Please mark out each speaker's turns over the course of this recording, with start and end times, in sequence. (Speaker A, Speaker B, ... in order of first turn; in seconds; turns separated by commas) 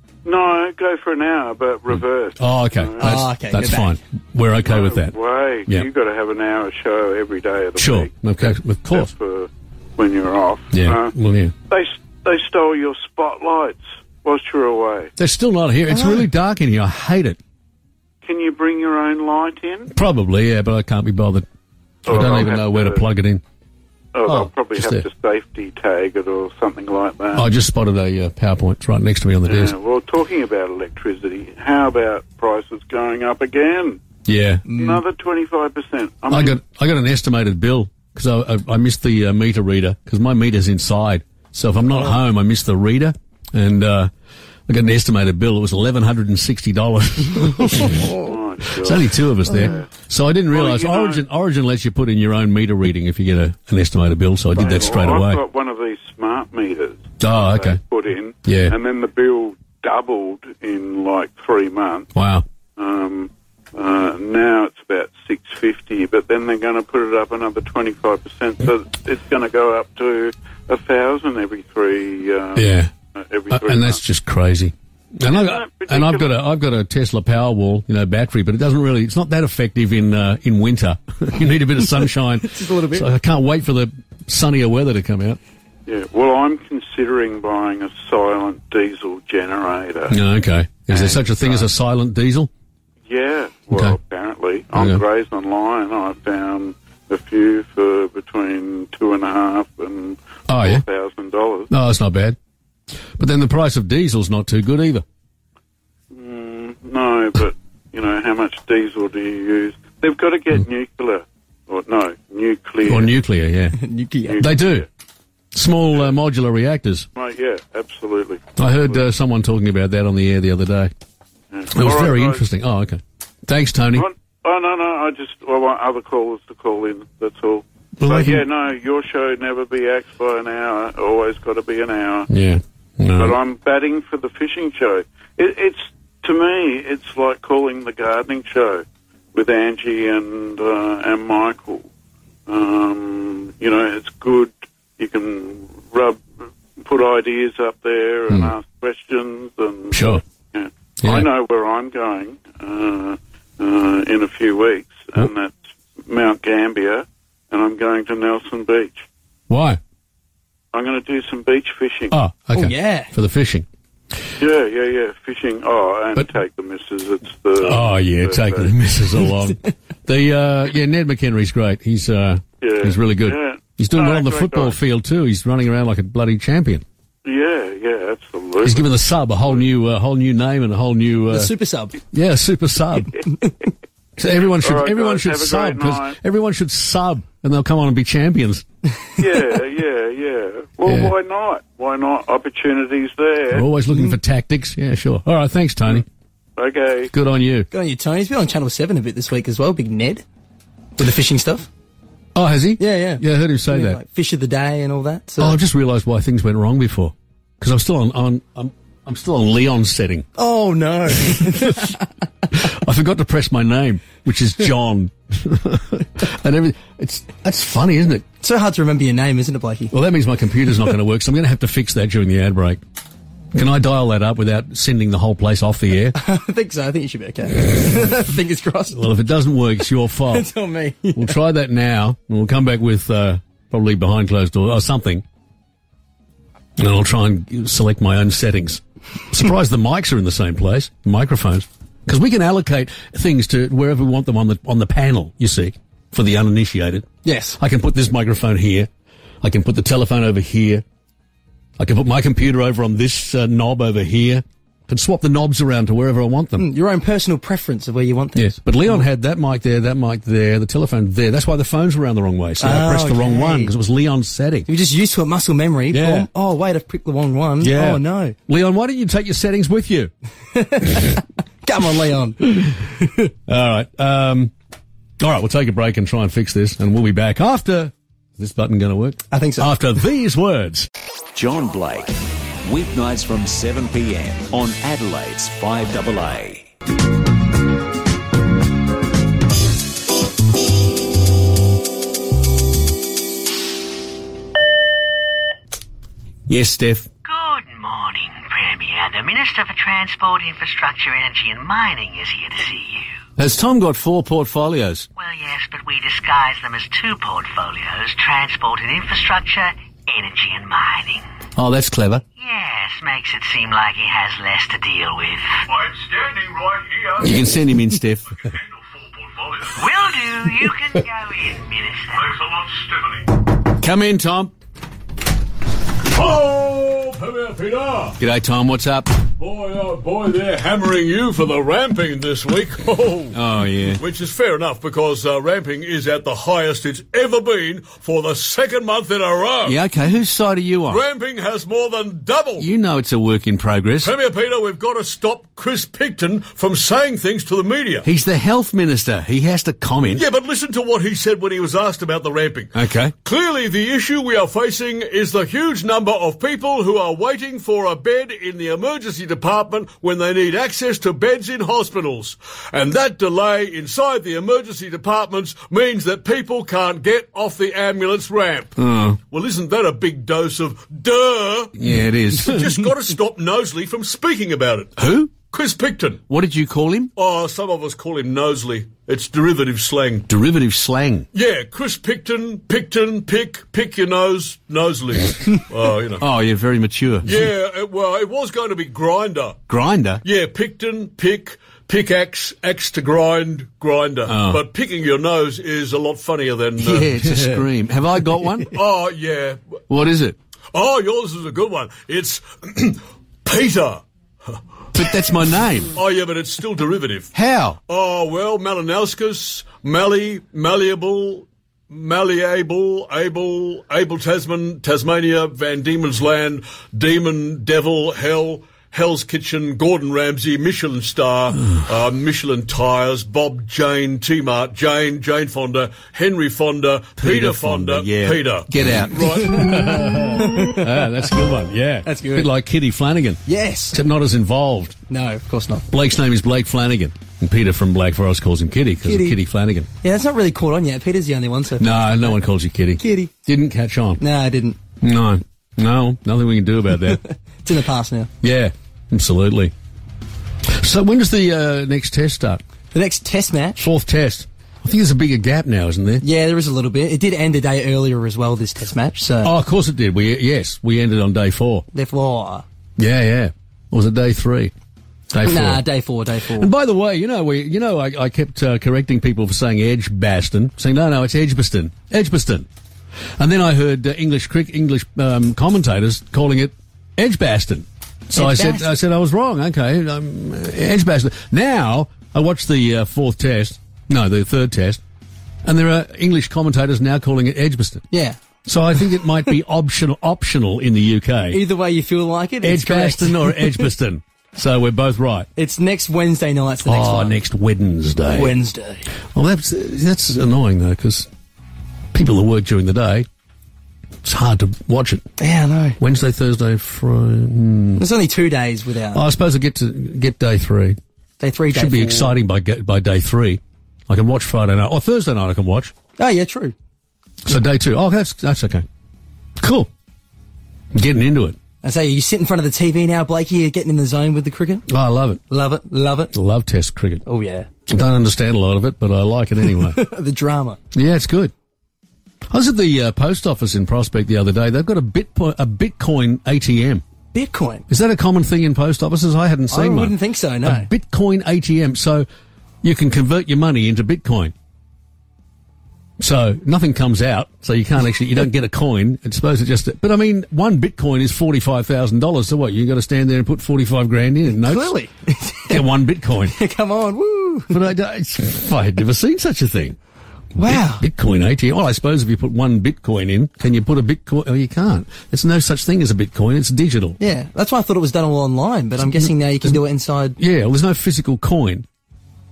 Speaker A: 0.2-3.2, Speaker B: 2.4-5.2, Speaker C: 3.0-4.0, Speaker A: 4.6-11.1, Speaker B: 7.8-9.1, Speaker B: 10.7-11.5, Speaker A: 11.7-15.1, Speaker B: 15.2-17.4, Speaker C: 15.9-16.2, Speaker A: 18.2-19.9, Speaker B: 19.9-21.5, Speaker B: 22.1-23.4, Speaker A: 22.1-23.1, Speaker A: 24.1-27.5, Speaker B: 24.2-25.1, Speaker B: 27.3-29.8, Speaker A: 29.5-34.0, Speaker B: 34.3-34.7, Speaker C: 34.7-35.0, Speaker A: 34.8-36.6, Speaker B: 36.3-44.1, Speaker B: 44.7-48.2, Speaker C: 47.7-48.3, Speaker A: 48.2-49.9, Speaker B: 48.8-55.4, Speaker A: 50.5-51.2, Speaker A: 54.6-62.1, Speaker B: 57.2-57.8, Speaker B: 58.5-58.8, Speaker B: 62.1-62.5, Speaker A: 62.8-74.0, Speaker B: 72.5-72.9, Speaker B: 73.5-85.4, Speaker A: 75.3-76.3, Speaker C: 82.5-83.1, Speaker A: 85.9-90.2, Speaker B: 90.1-92.5, Speaker A: 90.9-91.7, Speaker A: 93.1-101.7, Speaker B: 93.7-94.0, Speaker B: 94.7-95.0, Speaker B: 100.5-100.8, Speaker B: 101.7-102.4, Speaker B: 103.2-105.0, Speaker A: 106.1-113.2, Speaker B: 112.8-113.8, Speaker C: 113.8-114.4, Speaker A: 114.3-114.9, Speaker B: 114.4-114.9, Speaker B: 115.5-117.1, Speaker A: 117.2-119.0, Speaker B: 118.6-120.9, Speaker A: 121.5-122.4, Speaker B: 121.7-124.1, Speaker A: 124.0-132.3, Speaker B: 128.0-128.4, Speaker B: 132.3-133.4, Speaker A: 133.2-141.9, Speaker A: 142.5-146.2, Speaker A: 146.8-159.1, Speaker B: 149.9-150.2, Speaker B: 151.0-151.3, Speaker B: 159.5-159.8, Speaker A: 160.7-162.2, Speaker B: 162.1-163.7, Speaker C: 162.6-163.1, Speaker A: 164.4-168.7, Speaker B: 167.6-176.8, Speaker A: 172.6-174.8, Speaker A: 177.2-178.9, Speaker B: 178.6-181.5, Speaker C: 181.3-182.0, Speaker B: 182.1-183.3, Speaker B: 184.2-188.7, Speaker A: 184.5-186.2, Speaker A: 189.2-193.7, Speaker B: 190.8-191.1, Speaker B: 193.5-196.1, Speaker A: 196.6-197.1, Speaker B: 197.1-197.7, Speaker C: 197.7-200.2, Speaker C: 201.0-201.7, Speaker B: 202.3-204.0, Speaker C: 202.8-205.6, Speaker B: 205.4-210.3, Speaker C: 210.4-212.1, Speaker B: 211.2-211.9, Speaker B: 212.5-218.2, Speaker C: 218.4-219.9, Speaker B: 219.9-222.8, Speaker B: 223.5-226.2, Speaker C: 226.2-229.1, Speaker B: 228.9-230.5, Speaker C: 230.3-231.4, Speaker B: 231.1-235.2, Speaker B: 236.8-248.9, Speaker C: 247.2-247.6, Speaker B: 249.4-250.8, Speaker B: 251.8-256.7, Speaker C: 256.6-259.1, Speaker B: 258.3-264.7, Speaker C: 262.6-263.7, Speaker C: 264.7-268.3, Speaker B: 265.9-266.3, Speaker B: 267.6-270.1, Speaker C: 270.5-273.3, Speaker B: 273.5-274.5, Speaker B: 275.2-280.9, Speaker C: 279.3-279.7, Speaker D: 281.3-286.7, Speaker B: 296.5-297.1, Speaker E: 297.7-302.3, Speaker B: 303.4-305.1, Speaker E: 305.4-309.6, Speaker E: 310.2-311.1, Speaker B: 311.6-312.2, Speaker E: 312.6-315.2, Speaker F: 315.7-317.3, Speaker B: 317.2-318.4, Speaker F: 318.4-319.6, Speaker E: 319.9-322.0, Speaker F: 322.4-323.3, Speaker B: 323.7-324.5, Speaker F: 326.1-328.2, Speaker B: 328.2-329.2, Speaker F: 329.3-339.8, Speaker B: 333.3-334.0, Speaker B: 339.6-341.0, Speaker F: 340.9-342.7, Speaker B: 342.6-344.1, Speaker F: 344.0-348.1, Speaker B: 348.0-350.2, Speaker F: 350.1-371.7, Speaker B: 352.8-353.1, Speaker B: 368.8-369.2, Speaker B: 371.8-372.8, Speaker F: 372.3-376.2, Speaker B: 375.0-375.3, Speaker B: 376.3-377.1, Speaker F: 377.2-380.3, Speaker B: 380.3-381.3, Speaker F: 381.3-386.2, Speaker B: 386.2-387.4, Speaker F: 387.2-389.6, Speaker B: 389.7-390.2, Speaker F: 390.2-397.1, Speaker B: 394.3-394.6, Speaker B: 396.8-398.8, Speaker F: 398.7-399.6, Speaker B: 399.9-400.4, Speaker F: 400.7-404.6, Speaker B: 404.9-406.0, Speaker F: 405.9-407.3, Speaker B: 407.3-407.8, Speaker F: 407.9-430.0, Speaker B: 427.2-435.0, Speaker C: 429.5-431.1, Speaker C: 432.1-432.5, Speaker C: 433.4-434.0, Speaker C: 435.1-435.9, Speaker B: 435.9-439.9, Speaker C: 439.0-439.4, Speaker C: 440.0-442.4, Speaker B: 441.8-444.2, Speaker C: 443.0-443.3, Speaker C: 444.2-444.8, Speaker B: 445.0-447.2, Speaker C: 447.2-448.3, Speaker B: 448.4-449.7, Speaker B: 450.7-452.6, Speaker C: 452.9-453.9, Speaker B: 453.8-456.2, Speaker C: 456.2-459.5, Speaker B: 459.4-461.9, Speaker C: 461.9-462.6, Speaker B: 463.0-464.7, Speaker B: 465.3-465.8, Speaker C: 465.4-466.7, Speaker B: 466.5-472.7, Speaker B: 473.4-485.0, Speaker C: 478.3-478.9, Speaker B: 485.6-488.1, Speaker C: 488.1-488.4, Speaker B: 488.6-491.6, Speaker C: 491.5-493.9, Speaker B: 492.6-495.5, Speaker C: 495.6-497.4, Speaker B: 496.8-498.6, Speaker C: 498.3-499.1, Speaker B: 499.3-501.3, Speaker B: 502.1-503.3, Speaker B: 504.2-505.3, Speaker C: 505.4-506.0, Speaker B: 506.0-508.1, Speaker C: 508.0-509.2, Speaker B: 509.1-511.0, Speaker C: 511.4-512.4, Speaker B: 511.7-515.9, Speaker C: 516.2-516.8, Speaker B: 517.5-518.9, Speaker B: 519.6-519.9, Speaker B: 520.9-521.6, Speaker C: 521.8-524.9, Speaker B: 524.9-525.4, Speaker C: 525.5-526.3, Speaker B: 526.3-527.2, Speaker C: 527.3-527.7, Speaker B: 527.9-530.0, Speaker C: 529.7-530.8, Speaker B: 530.9-531.5, Speaker B: 532.5-537.0, Speaker C: 537.3-537.9, Speaker B: 537.9-542.3, Speaker C: 539.7-540.9, Speaker B: 542.8-544.5, Speaker B: 546.2-554.9, Speaker C: 554.5-555.8, Speaker B: 555.7-556.6, Speaker C: 556.5-557.8, Speaker B: 557.7-560.0, Speaker C: 560.6-561.0, Speaker B: 560.6-567.2, Speaker C: 567.2-570.4, Speaker B: 569.2-569.8, Speaker B: 570.4-571.9